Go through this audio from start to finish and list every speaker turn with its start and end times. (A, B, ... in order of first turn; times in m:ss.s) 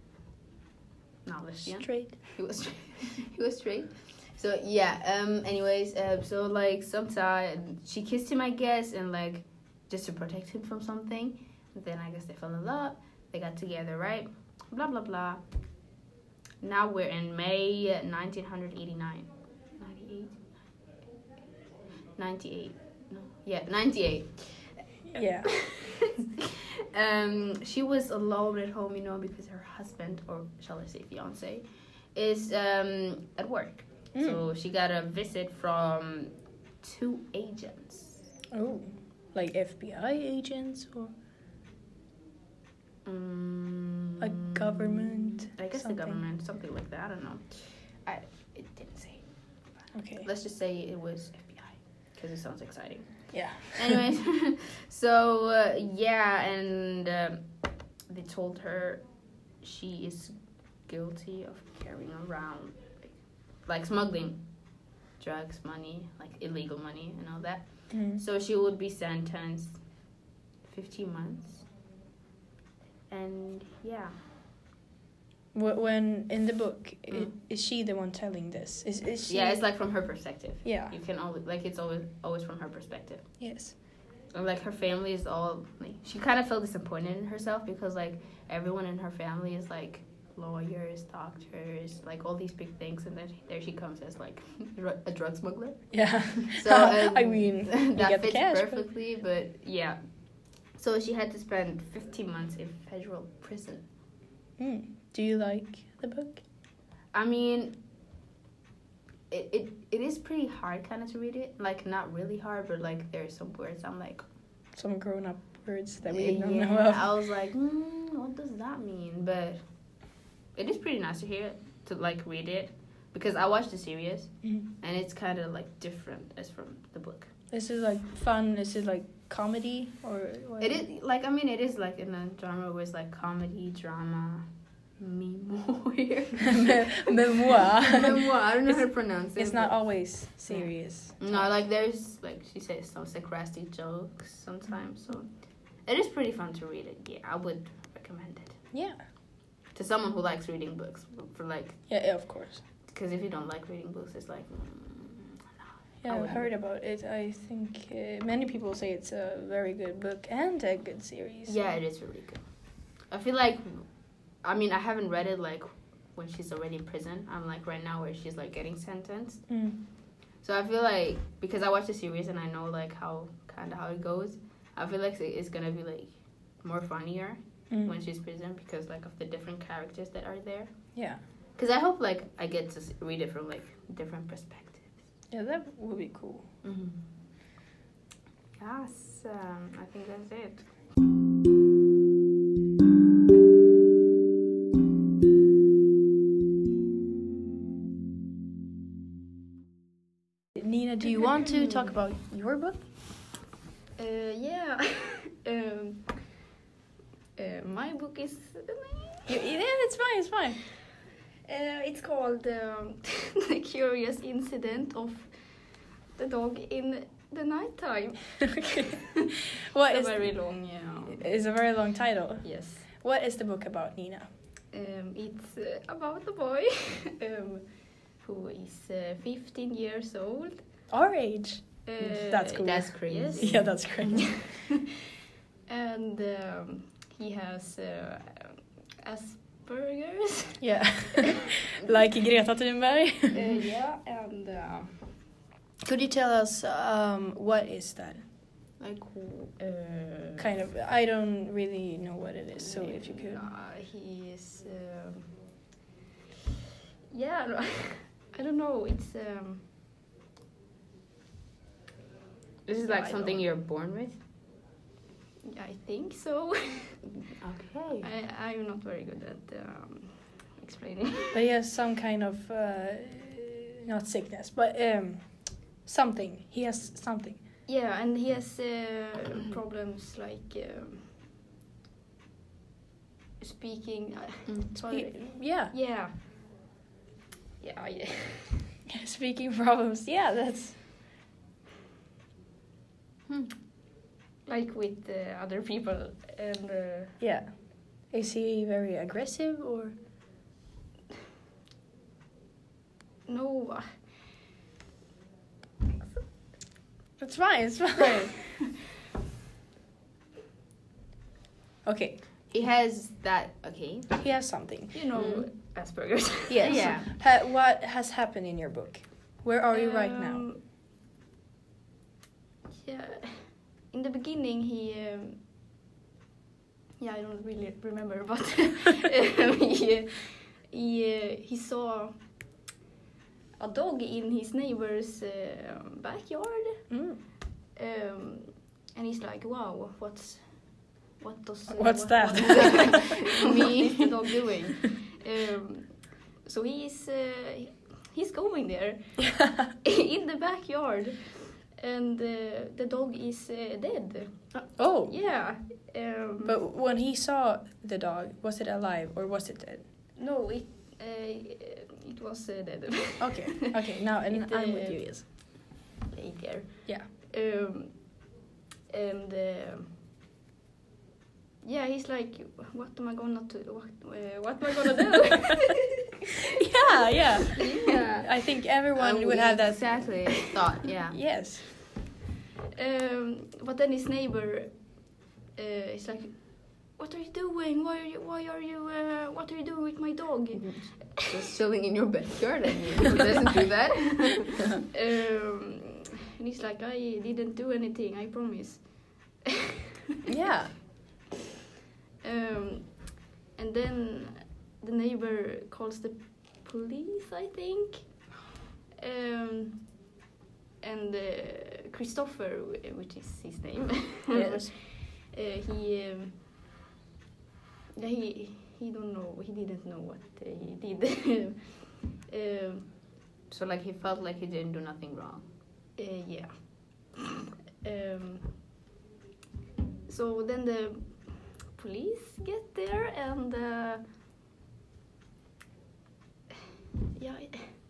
0:01.2-0:15.4 A
0:01.6-0:02.2 B
0:16.6-0:20.4 A
0:22.2-0:24.8 A
0:25.1-0:25.7 B
0:25.7-0:38.2 A
0:34.1-0:34.4 B
0:38.5-0:41.1 B
0:43.0-0:49.2 A
0:44.2-0:46.2 B
0:49.9-0:50.3 B
0:50.2-0:57.5 A
0:53.3-0:54.0 B
0:58.1-0:59.1 A
0:59.6-1:00.3 A
1:00.9-1:04.6 A
1:05.2-1:09.8 A
1:07.9-1:08.2 B
1:10.6-1:11.7 A
1:13.1-1:14.1 A
1:15.5-1:19.6 B
1:19.3-1:23.4 A
1:20.6-1:21.0 B
1:23.4-1:23.8 B
1:24.3-1:40.0 A
1:35.9-1:38.9 B
1:40.7-1:43.9 A
1:44.6-1:46.4 B
1:47.1-1:47.8 A
1:49.3-1:54.2 A
1:54.8-1:57.1 B
1:56.1-1:59.6 A
2:00.6-2:07.3 A
2:07.5-2:10.8 B
2:10.6-2:14.5 A
2:15.0-2:19.9 A
2:16.5-2:21.6 B
2:20.5-2:25.3 A
2:25.8-2:28.6 A
2:28.7-2:29.0 B
2:29.7-2:31.9 A
2:31.9-2:32.6 B
2:32.9-2:36.5 A
2:36.0-2:41.7 B
2:41.5-2:49.5 A
2:49.5-2:49.8 B
2:50.4-3:00.7 A
2:57.7-2:58.0 B
3:01.0-3:01.2 B
3:01.6-3:05.0 A
3:05.3-3:06.5 B
3:06.6-3:07.0 A
3:08.6-3:10.7 A
3:20.6-3:22.8 B
3:24.0-3:26.3 C
3:27.4-3:29.4 C
3:29.3-3:30.6 B
3:31.5-3:35.4 C
3:36.2-3:41.3 C
3:39.6-3:44.3 B
3:42.4-3:42.9 C
3:44.7-3:50.6 C
3:50.9-3:54.4 B
3:51.9-3:54.8 C
3:52.6-3:54.2 A
3:55.7-4:00.6 C
4:00.6-4:03.6 B
4:01.2-4:01.5 C
4:03.3-4:05.0 C
4:05.8-4:08.2 B
4:08.8-4:09.6 A
4:09.6-4:10.4 C
4:10.4-4:13.5 B
4:12.6-4:15.3 C
4:17.1-4:19.7 C
4:22.7-4:24.2 A
4:22.8-4:23.4 C
4:25.4-4:27.2 C
4:27.4-4:28.1 A
4:28.0-4:31.4 C
4:31.3-4:37.4 B
4:37.7-4:41.1 C
4:43.4-4:46.2 C
4:44.9-4:45.7 B
4:47.6-4:48.7 C
4:48.9-4:50.8 B
4:53.3-4:53.5 A
4:54.5-4:57.2 C
4:57.2-5:00.0 B
5:03.3-5:04.0 C
5:07.2-5:08.4 B
5:11.8-5:12.5 B
5:12.5-5:14.2 A
5:14.2-5:15.2 B
5:14.9-5:17.0 C
5:15.1-5:15.5 A
5:16.5-5:20.5 B
5:16.6-5:17.1 A
5:19.7-5:20.6 C
5:22.8-5:25.4 C
5:27.0-5:32.2 C
5:33.6-5:36.9 C
5:36.9-5:37.2 B
5:37.8-5:56.6 C
5:41.7-5:44.1 B
5:43.2-5:44.0 A
5:49.3-5:49.7 B
5:54.8-5:55.2 B
5:56.4-5:59.9 B
6:00.2-6:05.6 C
6:03.2-6:05.3 B
6:06.1-6:08.2 C
6:08.9-6:10.0 C
6:11.6-6:16.5 C
6:16.5-6:20.5 B
6:17.5-6:18.0 C
6:17.6-6:21.2 A
6:21.1-6:21.7 B
6:22.8-6:31.3 C
6:30.5-6:30.9 B
6:31.2-6:34.7 A
6:34.9-6:39.6 C
6:40.3-6:40.8 B
6:42.2-6:48.3 C
6:49.0-6:49.9 C
6:50.8-6:56.4 C
6:54.3-6:54.7 B
6:58.0-7:02.9 C
7:03.5-7:05.5 A
7:06.0-7:08.6 C
7:10.1-7:14.0 C
7:17.2-7:17.7 C